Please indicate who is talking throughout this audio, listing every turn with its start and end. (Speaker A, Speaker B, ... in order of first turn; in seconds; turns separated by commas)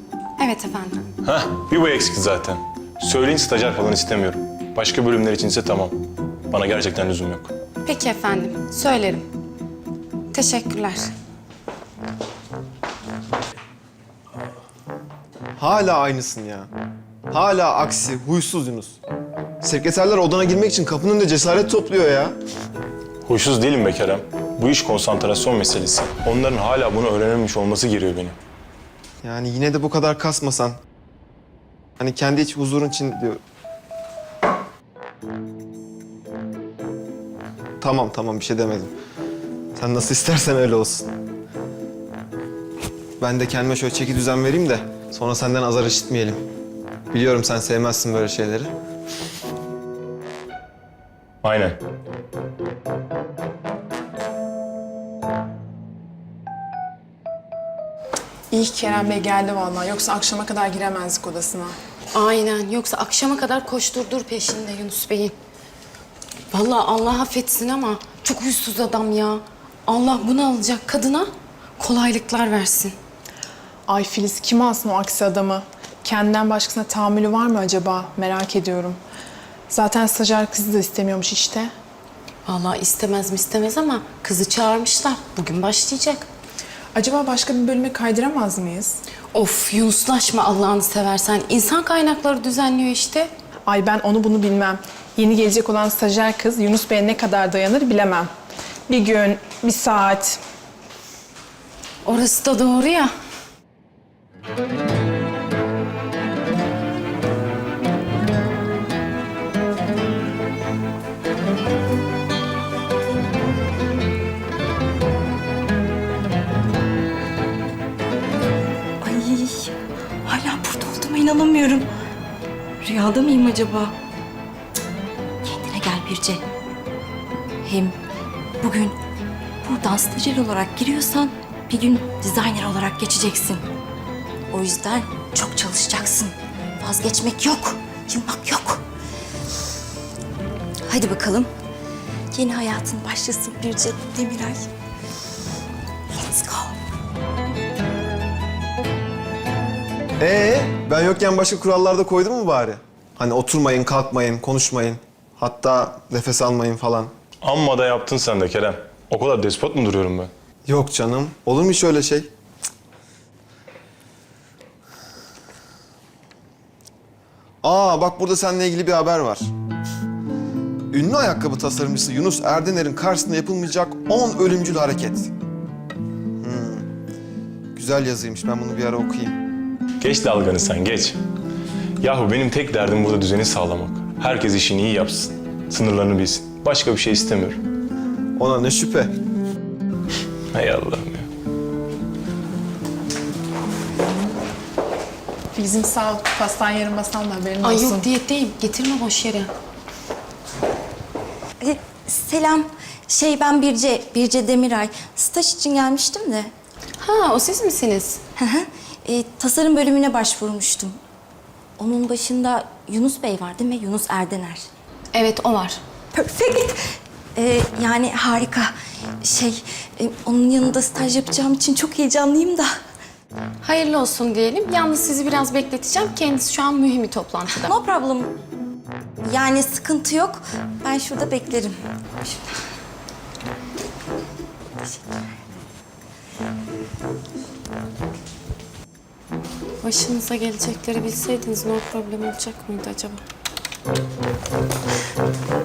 Speaker A: 0.4-1.1, Speaker B: 1.2-6.0, Speaker B: 6.5-7.5, Speaker A: 7.8-9.3, Speaker A: 10.3-11.1, Speaker C: 15.6-16.7, Speaker C: 17.3-19.0, Speaker C: 19.6-22.4, Speaker B: 23.2-28.4, Speaker C: 29.2-30.8, Speaker C: 32.0-33.4, Speaker C: 37.8-38.9, Speaker C: 39.8-41.1, Speaker C: 43.2-46.4, Speaker C: 47.1-48.7, Speaker B: 51.4-51.8, Speaker D: 58.5-61.8, Speaker A: 62.1-65.3, Speaker A: 66.5-73.0, Speaker D: 73.9-79.0, Speaker D: 79.7-81.7, Speaker A: 82.5-86.3, Speaker D: 86.9-89.0, Speaker A: 89.3-93.3, Speaker D: 93.7-98.3, Speaker D: 98.9-100.4, Speaker A: 102.0-103.1, Speaker E: 119.0-119.7, Speaker E: 120.2-121.8, Speaker E: 122.8-123.9, Speaker E: 125.5-126.4, Speaker E: 127.6-127.9, Speaker E: 128.6-128.9, Speaker E: 129.6-133.6, Speaker E: 134.5-138.8, Speaker E: 140.9-141.5, Speaker E: 142.3-144.7, Speaker E: 146.1-146.7, Speaker C: 150.2-157.1, Speaker B: 157.4-160.3, Speaker C: 160.7-162.3, Speaker C: 167.6-169.5, Speaker C: 170.9-175.3, Speaker C: 176.4-176.9, Speaker C: 177.8-179.4, Speaker B: 180.0-181.2, Speaker B: 182.0-187.6, Speaker C: 188.4-189.1, Speaker B: 190.5-191.3, Speaker D: 195.6-198.1, Speaker A: 197.6-199.5, Speaker E: 201.6-206.5, Speaker A: 207.0-208.2, Speaker E: 208.4-211.0, Speaker E: 211.8-214.6, Speaker A: 215.1-215.8, Speaker E: 216.1-216.7, Speaker E: 217.4-218.7, Speaker E: 219.2-222.7, Speaker A: 223.6-227.7, Speaker E: 227.7-228.3, Speaker E: 229.2-231.7, Speaker A: 239.8-243.2